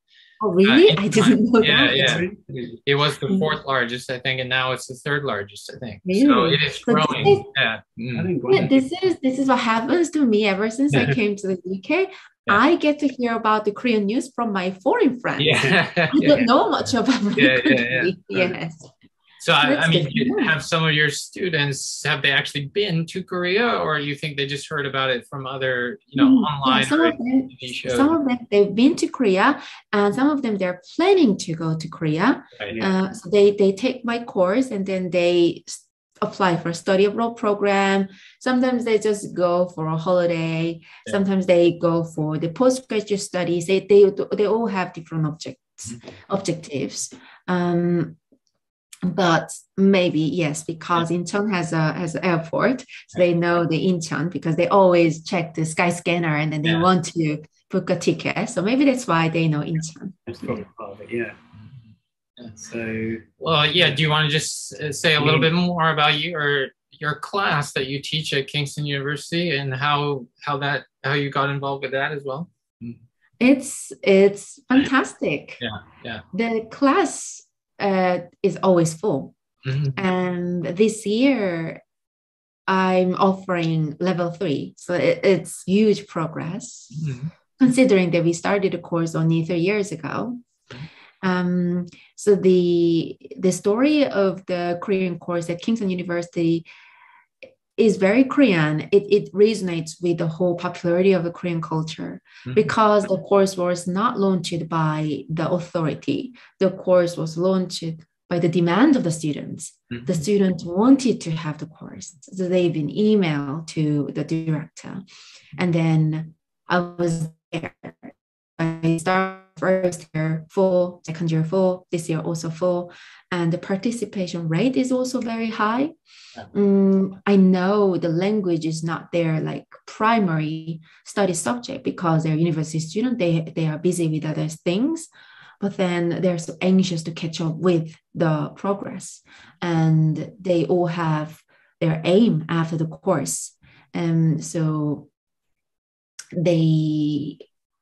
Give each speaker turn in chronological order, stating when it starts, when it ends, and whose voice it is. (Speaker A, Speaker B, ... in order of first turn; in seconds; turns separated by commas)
Speaker A: 0.4-2.2, Speaker B: 0.6-2.2, Speaker C: 1.9-2.8, Speaker B: 2.9-8.7, Speaker A: 3.3-3.5, Speaker A: 6.0-7.5, Speaker C: 8.2-8.8, Speaker A: 8.5-18.9, Speaker B: 15.4-16.4, Speaker B: 17.3-18.1, Speaker B: 19.4-28.1, Speaker A: 19.6-20.5, Speaker A: 26.1-48.2, Speaker A: 49.0-60.6, Speaker C: 60.3-61.3, Speaker B: 62.4-62.7, Speaker C: 62.7-63.2, Speaker B: 63.4-73.0, Speaker C: 65.2-65.5, Speaker A: 73.4-75.6, Speaker B: 75.6-76.2, Speaker A: 76.3-79.3, Speaker B: 79.6-80.0, Speaker A: 79.9-81.8, Speaker A: 82.7-87.0, Speaker B: 86.9-87.3, Speaker A: 87.6-90.4, Speaker A: 91.2-96.7, Speaker A: 97.8-115.0, Speaker A: 115.6-125.9, Speaker A: 126.5-135.1, Speaker A: 135.6-145.1, Speaker A: 146.3-147.4